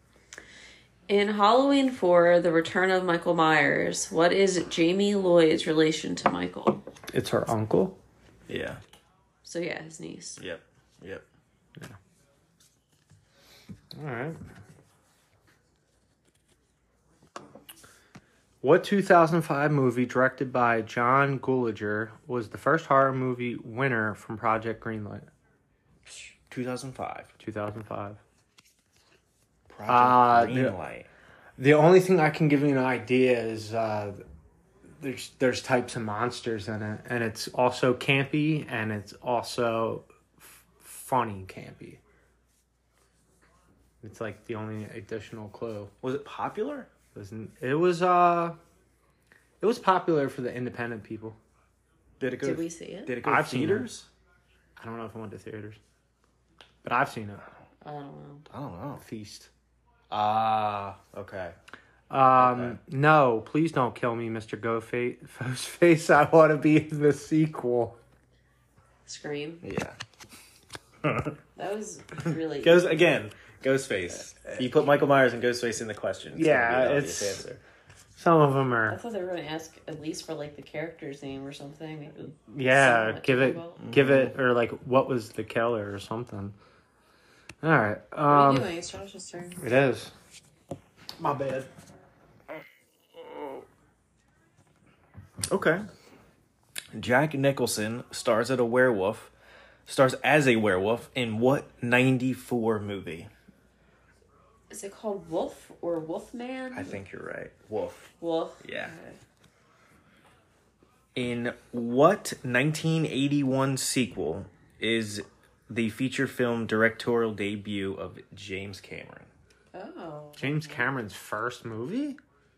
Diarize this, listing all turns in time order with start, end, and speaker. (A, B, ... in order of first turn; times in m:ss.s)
0:01.1-0:06.8 A
0:07.1-0:08.0 B
0:08.5-0:08.8 C
0:09.4-0:10.4 A
0:10.4-0:11.2 C
0:13.9-0:14.4 B
0:18.6-0:25.3 B
0:26.1-0:27.3 C
0:27.4-0:28.2 B
0:29.7-0:31.1 C
0:29.9-0:30.8 B
0:31.6-0:34.2 B
0:35.0-0:42.0 B
0:44.0-0:45.9 B
0:46.0-0:46.9 C
0:47.1-0:48.6 B
0:49.6-0:51.4 B
0:52.2-0:54.1 C
0:52.4-0:53.1 A
0:53.2-0:53.9 B
0:54.8-0:55.8 B
0:56.8-0:57.4 B
0:57.8-0:58.5 A
0:58.5-0:59.0 C
0:59.0-0:59.5 B
1:00.1-1:01.6 C
1:02.1-1:08.0 B
1:02.4-1:02.8 C
1:09.0-1:09.6 A
1:09.6-1:10.0 C
1:11.0-1:11.3 C
1:11.6-1:13.0 A
1:12.6-1:17.6 C
1:16.3-1:17.4 B
1:18.2-1:19.0 B
1:18.9-1:23.8 A
1:22.5-1:26.6 B
1:23.8-1:24.3 C
1:27.6-1:28.7 B
1:28.3-1:29.6 A
1:29.6-1:30.1 B
1:31.2-1:31.6 C
1:33.2-1:33.6 C
1:35.5-1:35.8 C
1:36.9-1:39.3 C
1:39.9-1:43.3 C
1:44.7-1:47.0 A
1:46.7-1:48.1 C
1:48.2-1:49.2 A
1:48.6-1:48.9 C
1:51.1-1:59.3 C
1:59.7-2:00.9 A
2:00.4-2:02.2 B